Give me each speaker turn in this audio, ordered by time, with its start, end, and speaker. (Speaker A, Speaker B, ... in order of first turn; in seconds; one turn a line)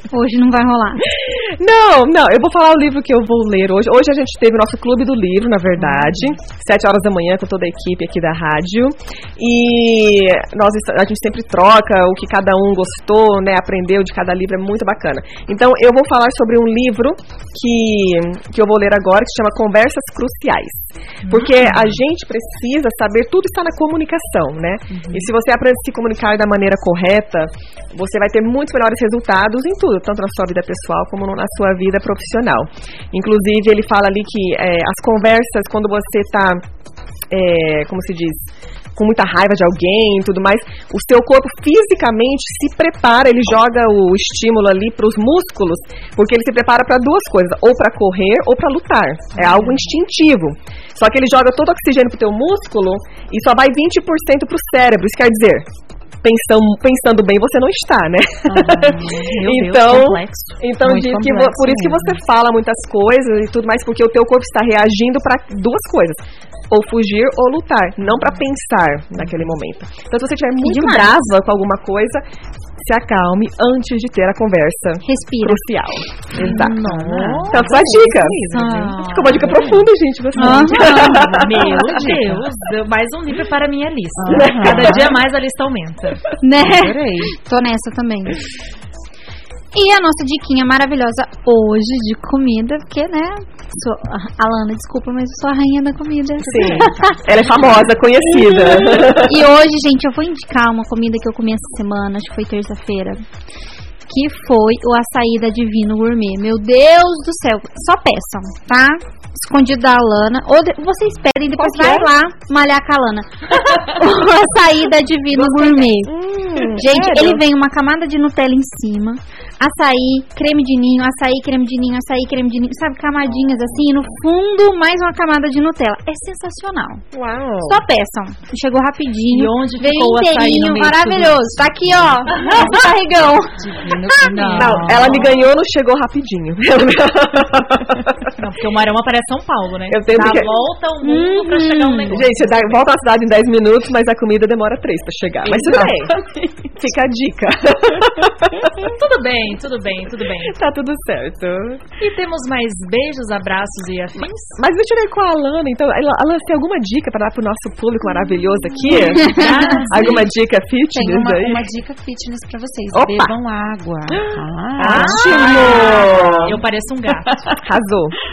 Speaker A: 0.1-1.1
Speaker B: 1.2-36.6
Speaker C: 21.2-21.9
Speaker D: 24.9-25.3
Speaker B: 37.3-38.4
Speaker B: 39.0-55.6
Speaker D: 49.4-49.9
Speaker B: 56.2-66.2
Speaker D: 58.5-59.3
Speaker C: 59.1-60.6
Speaker D: 60.8-62.2
Speaker B: 66.7-72.2
Speaker A: 70.6-71.3
Speaker B: 72.8-76.9
Speaker A: 75.0-75.6
Speaker C: 76.3-79.5
Speaker D: 76.3-79.9
Speaker B: 77.5-78.4
Speaker B: 79.0-81.7
Speaker A: 80.3-81.4
Speaker C: 80.4-86.2
Speaker D: 81.1-82.5
Speaker D: 84.2-85.2
Speaker B: 84.3-85.1
Speaker A: 86.4-88.4
Speaker D: 86.6-87.4
Speaker A: 89.7-97.2
Speaker B: 96.4-99.4
Speaker D: 96.6-96.9
Speaker A: 98.3-103.2
Speaker A: 104.1-116.1
Speaker B: 111.5-112.1
Speaker B: 115.3-117.4
Speaker A: 116.8-127.0
Speaker B: 127.1-127.8
Speaker A: 127.7-133.6
Speaker C: 129.3-131.6
Speaker D: 131.9-132.8
Speaker C: 132.3-132.8
Speaker D: 133.6-135.2
Speaker C: 134.2-135.3
Speaker B: 134.6-138.2
Speaker C: 138.3-142.8
Speaker B: 139.9-140.5
Speaker A: 141.0-142.2
Speaker B: 142.1-146.2
Speaker C: 145.4-145.9
Speaker D: 145.8-146.6
Speaker B: 146.8-148.7
Speaker C: 148.8-150.6
Speaker B: 150.4-151.8
Speaker C: 152.0-154.6
Speaker B: 154.5-161.6
Speaker C: 158.9-160.2
Speaker D: 158.9-160.2
Speaker D: 160.9-166.6
Speaker B: 162.9-163.3
Speaker B: 164.8-166.6
Speaker C: 164.8-167.4
Speaker D: 167.2-167.6
Speaker B: 167.6-168.2